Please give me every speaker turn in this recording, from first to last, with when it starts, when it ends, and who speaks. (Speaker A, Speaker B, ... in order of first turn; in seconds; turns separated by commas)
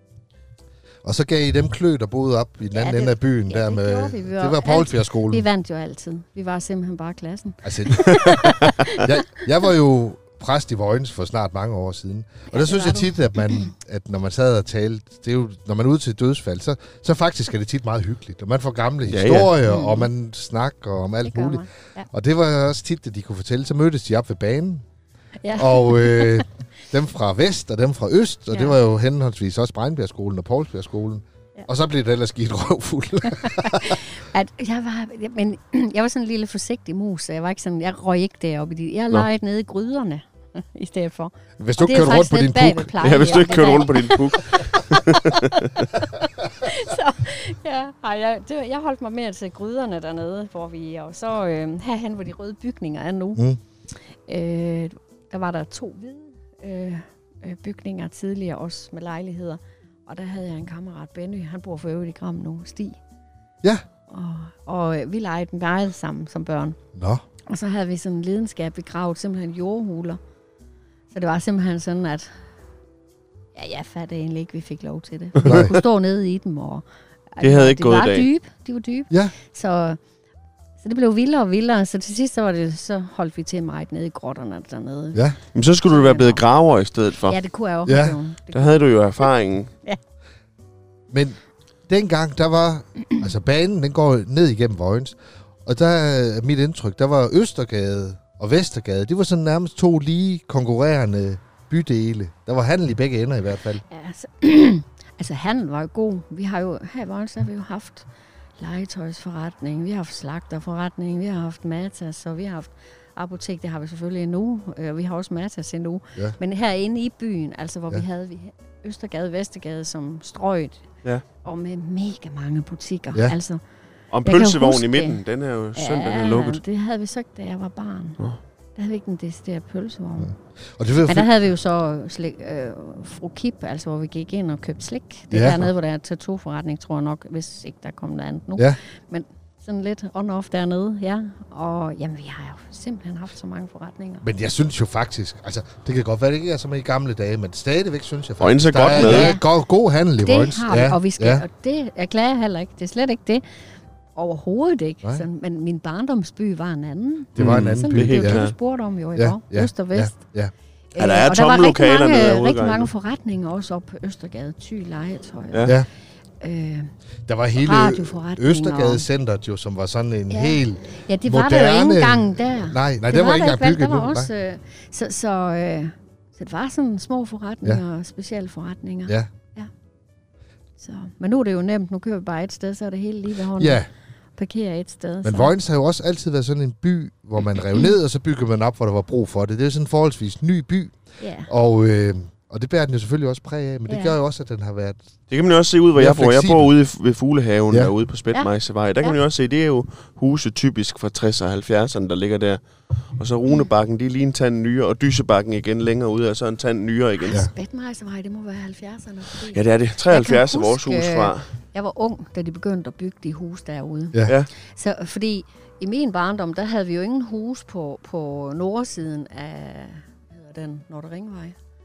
Speaker A: 1.0-5.5, Speaker B: 2.7-9.2, Speaker A: 7.6-24.8, Speaker B: 12.5-13.7, Speaker C: 19.1-19.5, Speaker B: 19.6-20.1, Speaker B: 21.2-22.1, Speaker B: 25.4-26.4, Speaker A: 25.5-34.0, Speaker B: 33.2-63.0, Speaker A: 41.6-43.2, Speaker C: 43.0-45.7, Speaker B: 64.1-66.8, Speaker A: 66.9-67.2, Speaker B: 67.5-70.2, Speaker B: 71.1-72.4, Speaker B: 73.5-80.0, Speaker C: 75.4-75.7, Speaker A: 75.4-75.7, Speaker C: 77.4-78.3, Speaker B: 80.8-85.2, Speaker C: 85.5-87.4, Speaker B: 85.9-86.4, Speaker B: 87.3-88.8, Speaker A: 87.8-88.2, Speaker C: 88.5-89.7, Speaker A: 91.1-91.4, Speaker A: 91.9-103.8, Speaker B: 103.9-108.1, Speaker B: 108.6-120.8, Speaker B: 121.4-123.6, Speaker C: 124.1-126.6, Speaker B: 124.2-125.2, Speaker B: 125.7-128.2, Speaker B: 128.8-130.3, Speaker A: 130.2-131.3, Speaker B: 131.0-144.2, Speaker A: 135.3-135.7, Speaker A: 144.2-151.4, Speaker C: 148.4-149.3, Speaker B: 148.9-149.4, Speaker B: 150.2-153.4, Speaker B: 154.2-160.2, Speaker A: 157.3-158.4, Speaker C: 157.4-158.5, Speaker A: 159.2-160.5, Speaker B: 160.9-165.8, Speaker C: 161.0-162.9, Speaker B: 166.4-166.9, Speaker A: 167.3-174.3, Speaker B: 167.6-169.0, Speaker B: 170.3-179.7, Speaker B: 180.8-183.8, Speaker A: 183.6-183.9, Speaker B: 184.4-185.5, Speaker A: 185.2-190.9, Speaker B: 191.2-191.5, Speaker A: 191.5-195.0, Speaker B: 193.9-194.2, Speaker C: 195.3-202.6, Speaker A: 195.9-196.7, Speaker B: 198.3-199.2, Speaker C: 203.2-207.4, Speaker B: 207.2-221.6, Speaker C: 209.5-211.4